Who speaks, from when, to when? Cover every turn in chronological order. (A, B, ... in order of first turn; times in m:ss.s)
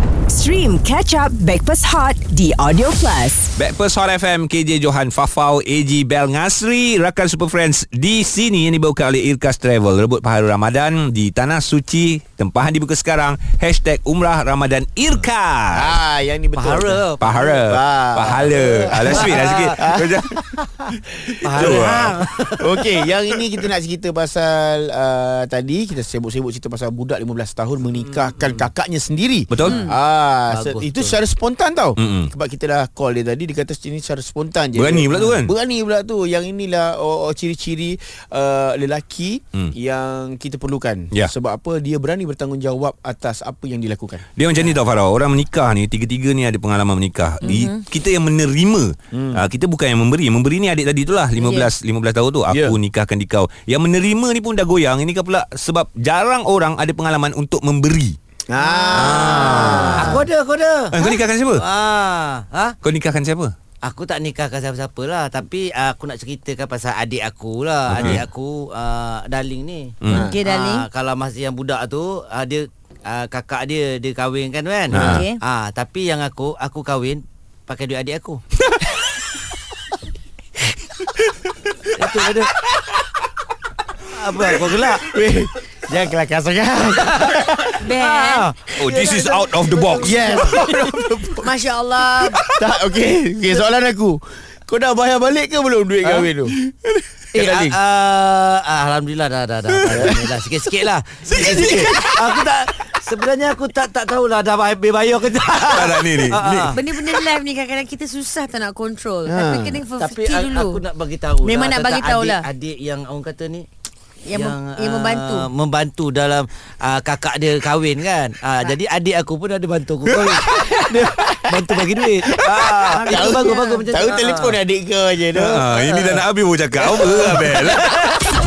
0:00.3-0:03.5 A
0:03.6-0:16.0 B
0:15.7-0:17.0 C
0:16.6-0:17.6 D
0:17.2-0:20.3 B
0:17.7-0:21.9 C
0:18.8-0:19.9 D
0:21.4-0:23.2 D
0:21.5-0:22.1 B
0:22.5-0:44.2 C
0:28.2-0:28.6 D
0:29.5-0:29.9 B
0:30.5-0:31.2 D
0:32.0-0:32.3 B
0:34.8-0:35.5 B
0:44.4-0:58.2 B
0:47.4-0:47.8 E
0:49.1-0:49.4 C
0:51.4-0:51.7 E
0:52.5-0:52.8 C
0:58.5-1:00.2 C
0:58.6-0:59.8 E
0:59.0-1:00.2 B
0:59.0-1:00.9 D
1:00.9-1:01.6 B
1:01.5-1:02.8 D
1:02.8-1:03.5 B
1:03.8-1:18.4 D
1:07.9-1:08.2 B
1:10.0-1:10.3 B
1:10.1-1:10.4 C
1:10.1-1:10.9 E
1:14.9-1:15.4 E
1:14.9-1:15.3 B
1:22.0-1:22.5 D
1:24.1-1:25.1 D
1:24.3-1:28.0 C
1:26.9-1:27.4 D
1:27.8-1:28.5 E
1:28.0-1:30.7 D
1:28.8-1:30.2 B
1:28.8-1:29.3 C
1:30.0-1:31.5 C
1:31.4-1:32.4 E
1:32.4-1:37.8 C
1:37.3-1:46.8 D
1:39.8-1:40.4 C
1:41.3-1:42.4 C
1:45.6-1:46.7 B
1:46.7-1:50.8 E
1:49.3-1:49.8 C
1:50.0-1:53.7 D
1:51.4-1:52.5 E
1:54.3-1:55.5 E
1:54.3-2:04.6 D
2:00.3-2:01.7 C
2:02.2-2:05.6 C
2:03.3-2:03.8 E
2:05.4-2:07.8 B
2:05.5-2:08.1 D